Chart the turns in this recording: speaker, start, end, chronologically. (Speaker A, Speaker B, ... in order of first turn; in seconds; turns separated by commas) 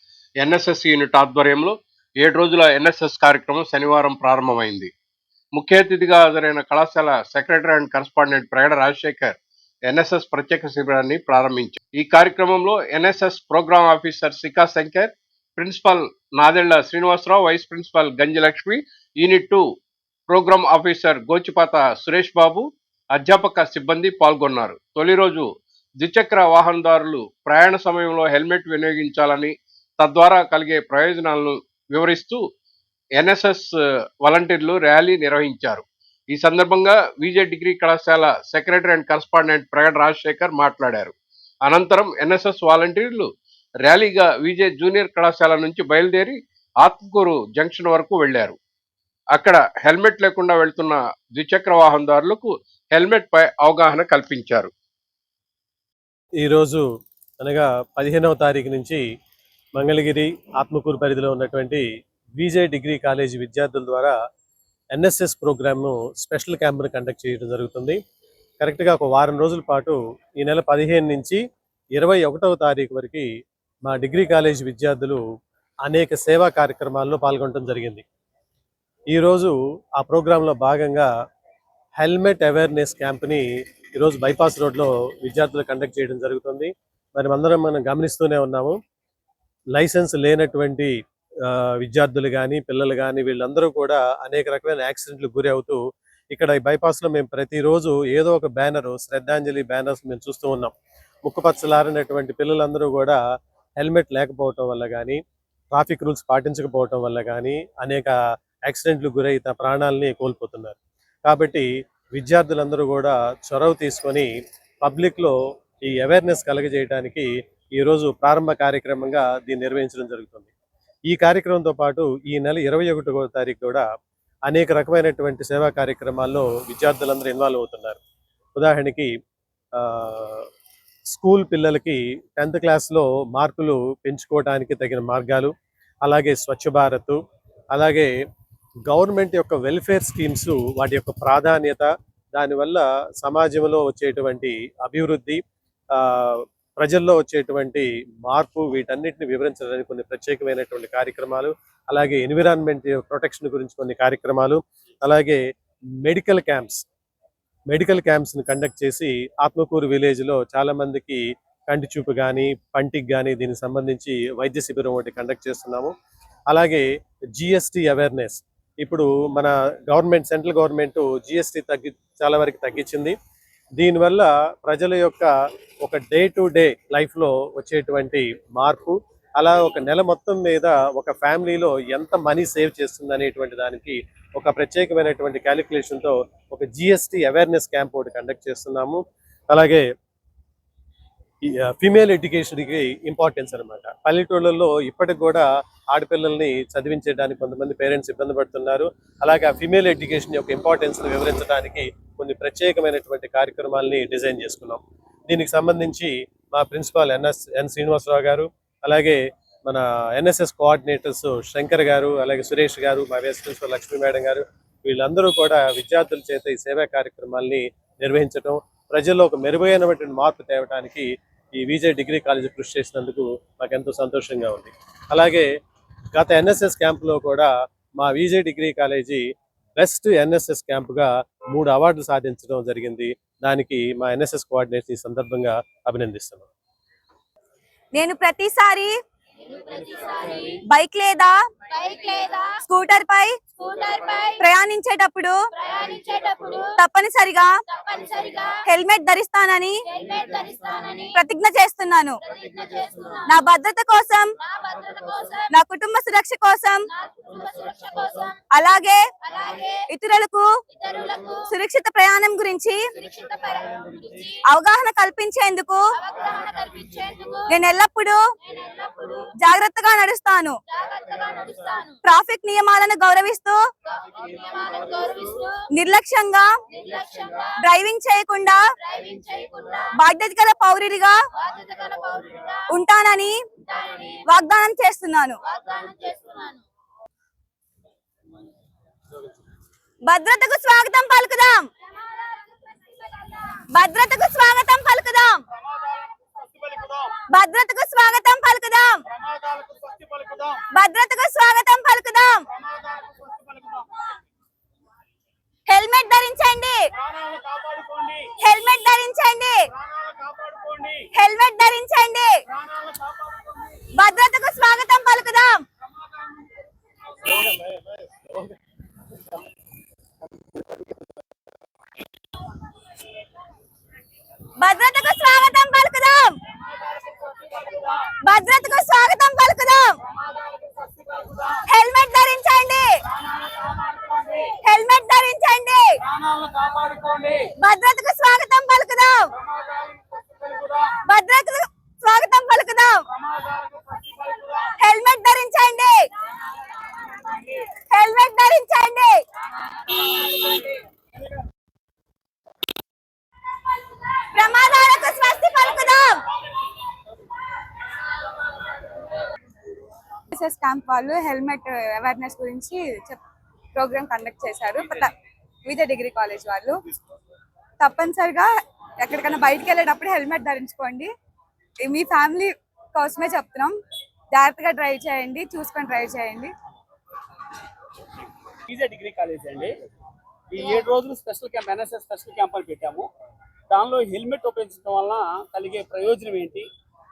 Speaker A: 0.4-4.9, Speaker A: 5.5-9.4, Speaker A: 9.9-19.6, Speaker A: 20.3-25.5, Speaker A: 26.0-32.4, Speaker A: 33.2-33.7, Speaker A: 34.2-41.1, Speaker A: 41.7-43.3, Speaker A: 43.9-48.6, Speaker A: 49.4-54.7, Speaker B: 56.4-56.9, Speaker B: 57.4-59.0, Speaker B: 59.8-61.9, Speaker B: 62.4-64.1, Speaker B: 65.0-68.0, Speaker B: 68.6-71.4, Speaker B: 72.0-73.3, Speaker B: 73.9-75.2, Speaker B: 75.9-78.0, Speaker B: 79.1-81.1, Speaker B: 82.0-88.8, Speaker B: 89.8-90.9, Speaker B: 91.5-95.8, Speaker B: 96.3-100.7, Speaker B: 101.3-103.2, Speaker B: 103.8-105.2, Speaker B: 105.7-108.2, Speaker B: 108.7-114.3, Speaker B: 114.8-120.5, Speaker B: 121.1-123.8, Speaker B: 124.5-128.0, Speaker B: 128.6-129.1, Speaker B: 129.8-130.5, Speaker B: 131.1-135.5, Speaker B: 136.1-137.2, Speaker B: 137.7-138.1, Speaker B: 138.9-145.4, Speaker B: 145.9-155.4, Speaker B: 156.0-156.8, Speaker B: 157.7-165.9, Speaker B: 166.5-166.8, Speaker B: 167.4-173.2, Speaker B: 173.8-175.3, Speaker B: 175.8-189.0, Speaker B: 189.5-189.8, Speaker B: 191.5-225.5, Speaker B: 226.2-229.2, Speaker B: 229.8-236.5, Speaker C: 237.9-238.9, Speaker D: 239.5-240.6, Speaker C: 240.7-241.4, Speaker D: 241.7-242.6, Speaker C: 242.6-243.3, Speaker D: 243.6-244.4, Speaker C: 244.4-245.3, Speaker D: 245.6-246.7, Speaker C: 246.8-247.5, Speaker D: 247.7-248.6, Speaker C: 248.7-249.7, Speaker D: 249.9-251.2, Speaker C: 251.2-252.2, Speaker D: 252.2-253.4, Speaker C: 253.3-254.3, Speaker D: 254.4-255.5, Speaker C: 255.5-256.8, Speaker D: 256.9-258.4, Speaker C: 258.6-259.0, Speaker D: 259.2-259.8, Speaker C: 259.9-260.5, Speaker D: 260.7-261.5, Speaker C: 261.5-262.8, Speaker D: 263.0-264.4, Speaker C: 264.5-265.8, Speaker D: 266.0-267.5, Speaker C: 267.5-268.2, Speaker D: 268.4-269.3, Speaker C: 269.4-270.6, Speaker D: 270.7-272.0, Speaker C: 272.0-273.6, Speaker D: 273.9-275.5, Speaker C: 275.8-276.5, Speaker D: 276.7-277.5, Speaker C: 277.6-278.6, Speaker D: 278.8-279.9, Speaker C: 280.0-281.2, Speaker D: 281.4-282.6, Speaker C: 282.7-283.4, Speaker D: 283.6-284.2, Speaker C: 284.3-285.4, Speaker D: 285.4-286.6, Speaker C: 290.1-291.7, Speaker D: 291.9-293.6, Speaker C: 293.8-295.4, Speaker E: 296.4-297.1, Speaker C: 297.3-299.0, Speaker E: 299.3-300.6, Speaker C: 300.7-302.5, Speaker E: 302.9-303.8, Speaker C: 305.7-306.9, Speaker E: 307.1-308.2, Speaker C: 308.4-309.6, Speaker E: 310.0-311.0, Speaker C: 311.1-312.4, Speaker C: 313.9-315.6, Speaker B: 317.4-318.2, Speaker C: 324.6-326.4, Speaker C: 328.2-330.0, Speaker C: 331.7-333.0, Speaker C: 334.6-336.0, Speaker E: 336.4-337.3, Speaker C: 337.6-339.3, Speaker C: 341.0-343.0, Speaker C: 344.8-346.1, Speaker C: 347.8-349.2, Speaker C: 354.3-356.2, Speaker F: 360.3-363.2, Speaker F: 363.8-365.1, Speaker F: 365.7-366.8, Speaker F: 367.8-368.5, Speaker F: 369.0-371.1, Speaker F: 371.8-373.8, Speaker F: 374.3-376.5, Speaker E: 378.7-379.8, Speaker E: 380.5-383.1, Speaker E: 383.7-386.7